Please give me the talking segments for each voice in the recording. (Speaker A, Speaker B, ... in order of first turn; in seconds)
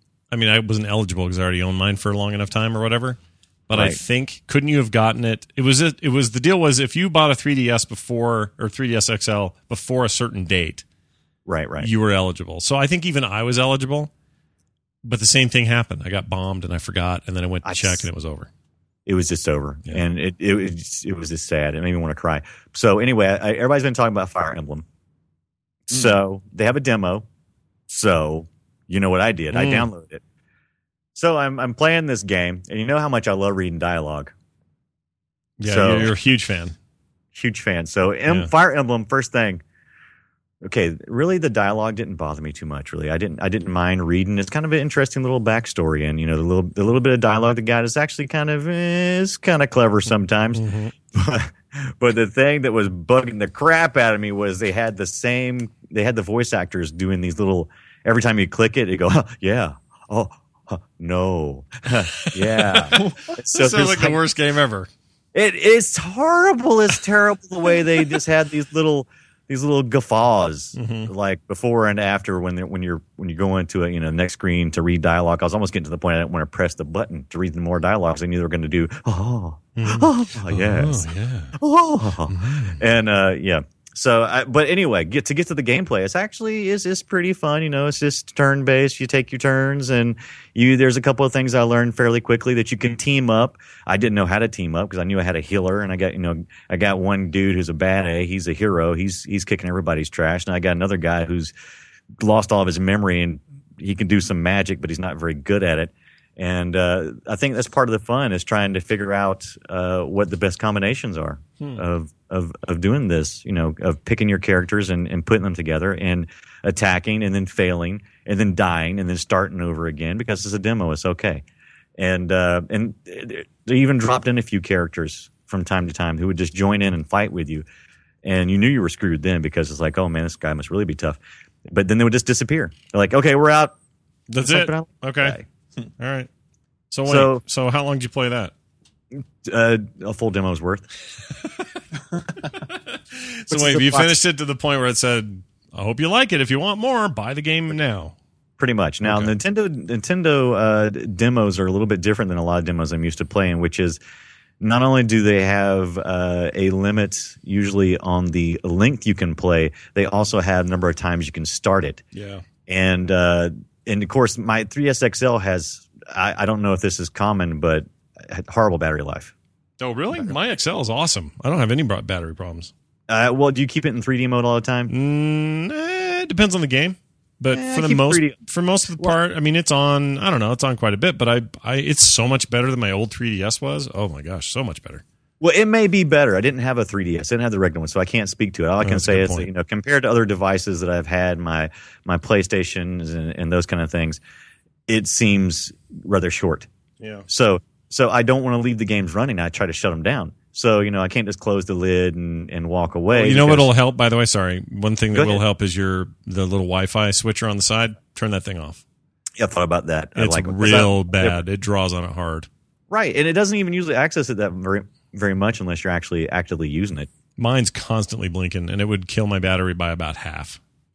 Speaker A: 0.3-10.8, 11.8-14.1, 15.0-18.5, 29.5-29.9, 35.6-36.7, 50.5-50.9, 62.1-64.9, 70.8-71.1, 79.8-81.5, 82.3-82.8, 134.3-135.4, 136.0-136.3, 136.9-138.5, 142.5-148.1, 149.0-149.3, 162.1-162.4, 169.8-172.7, 174.9-185.0, 188.8-189.5, 197.0-197.2, 203.1-208.8, 210.2-212.5, 217.4-220.6
Speaker B: 3.7-4.0, 11.4-11.9, 17.6-18.1, 19.1-24.8, 25.9-27.2, 27.9-30.2, 31.1-34.3, 35.6-36.1, 37.3-39.6, 40.6-64.2, 65.3-101.5, 102.2-121.4, 122.0-127.7, 128.2-133.7, 134.4-135.4, 137.1-137.4, 139.1-140.9, 143.5-144.1, 148.6-154.0, 154.6-162.0, 162.7-169.3, 173.1-174.9, 177.5-178.4, 185.4-194.2, 194.9-196.7, 197.3-203.7, 205.1-205.4, 209.4-211.4, 212.9-217.1